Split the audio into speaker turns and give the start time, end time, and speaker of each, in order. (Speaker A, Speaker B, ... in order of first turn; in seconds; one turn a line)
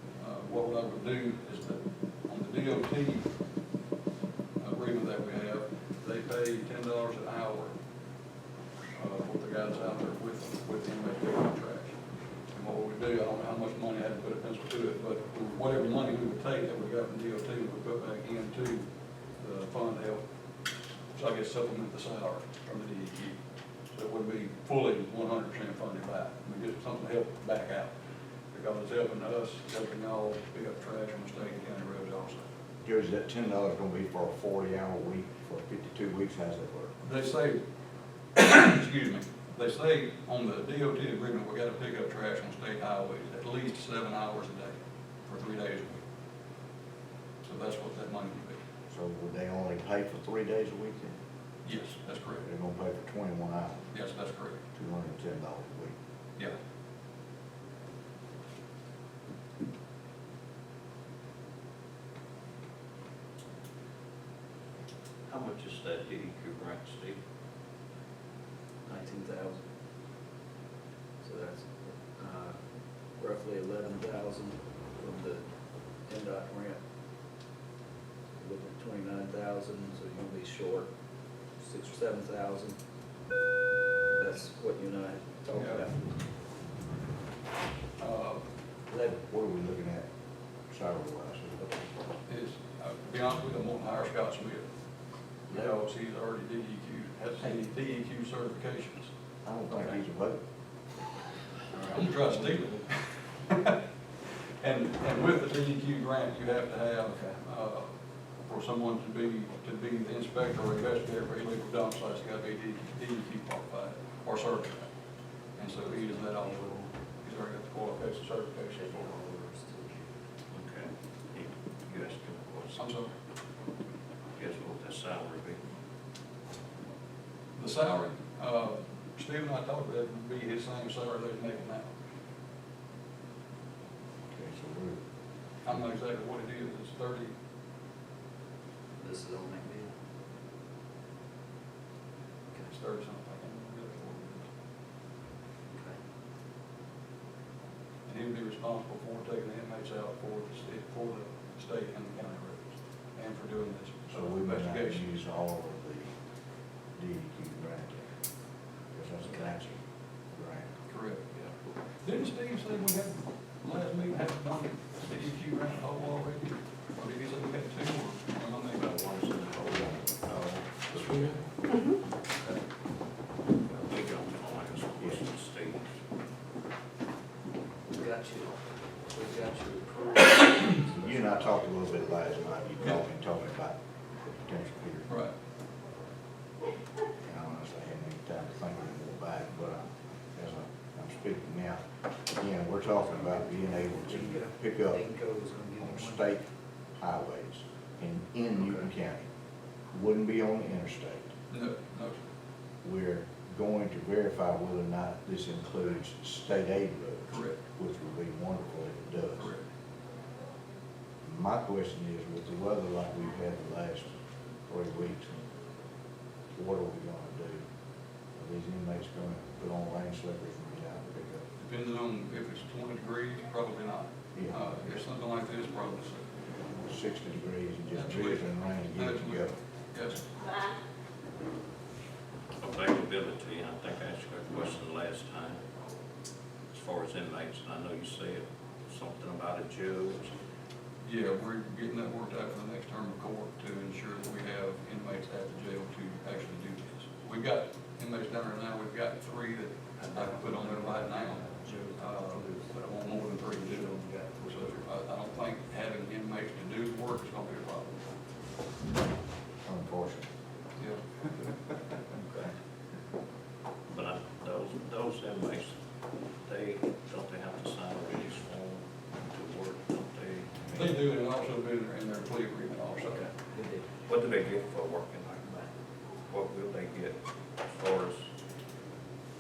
Speaker A: 0.2-3.3
Speaker A: 4.6-7.8
Speaker A: 9.0-12.0
Speaker A: 12.5-20.3
Speaker A: 21.1-27.9
Speaker A: 28.5-32.5
Speaker B: 32.8-37.0
Speaker A: 37.0-37.6
Speaker A: 38.4-46.0
Speaker A: 47.4-48.6
Speaker B: 48.9-51.2
Speaker A: 51.6-52.5
Speaker B: 52.4-53.9
Speaker A: 53.9-54.6
Speaker B: 54.7-56.0
Speaker C: 65.3-67.2
Speaker D: 68.9-69.6
Speaker D: 71.2-72.6
Speaker D: 73.2-75.5
Speaker D: 76.1-76.8
Speaker D: 78.4-80.9
Speaker D: 81.6-82.8
Speaker D: 84.1-86.0
Speaker A: 85.5-85.9
Speaker A: 88.0-88.4
Speaker D: 88.9-89.2
Speaker B: 89.0-90.1
Speaker B: 90.7-91.7
Speaker A: 92.3-94.7
Speaker A: 95.5-99.1
Speaker B: 99.4-100.4
Speaker D: 101.8-102.6
Speaker A: 101.9-103.8
Speaker A: 104.6-107.9
Speaker A: 108.4-114.9
Speaker A: 115.6-119.1
Speaker D: 116.3-116.9
Speaker D: 118.7-120.1
Speaker C: 120.5-122.9
Speaker A: 122.8-123.1
Speaker C: 124.4-125.6
Speaker A: 127.6-131.9
Speaker B: 134.3-135.0
Speaker A: 135.7-137.3
Speaker D: 139.0-139.9
Speaker A: 142.6-144.5
Speaker D: 145.7-146.0
Speaker A: 148.1-155.0
Speaker B: 154.1-156.1
Speaker B: 157.0-158.1
Speaker B: 158.9-160.7
Speaker A: 160.9-161.2
Speaker A: 162.0-168.8
Speaker C: 168.7-171.3
Speaker A: 170.9-171.4
Speaker C: 173.7-175.8
Speaker D: 177.9-181.7
Speaker B: 180.8-185.1
Speaker A: 185.1-185.3
Speaker B: 187.2-195.1
Speaker D: 194.1-196.2
Speaker B: 195.8-199.3
Speaker B: 199.9-201.3
Speaker A: 201.5-202.3
Speaker B: 202.8-209.5
Speaker A: 207.3-207.6
Speaker A: 209.3-209.7
Speaker B: 211.2-215.4
Speaker B: 216.5-217.6
Speaker B: 218.3-221.4
Speaker A: 221.6-226.3
Speaker B: 224.3-225.0
Speaker B: 226.8-229.6
Speaker A: 227.9-230.2
Speaker C: 232.6-235.6
Speaker C: 236.7-240.3
Speaker A: 241.0-258.0
Speaker D: 250.0-254.7
Speaker B: 259.6-260.3
Speaker C: 263.9-265.8
Speaker C: 266.4-271.0
Speaker A: 270.7-273.3
Speaker D: 273.1-273.9
Speaker C: 274.1-275.7
Speaker C: 276.3-277.2
Speaker C: 277.7-278.3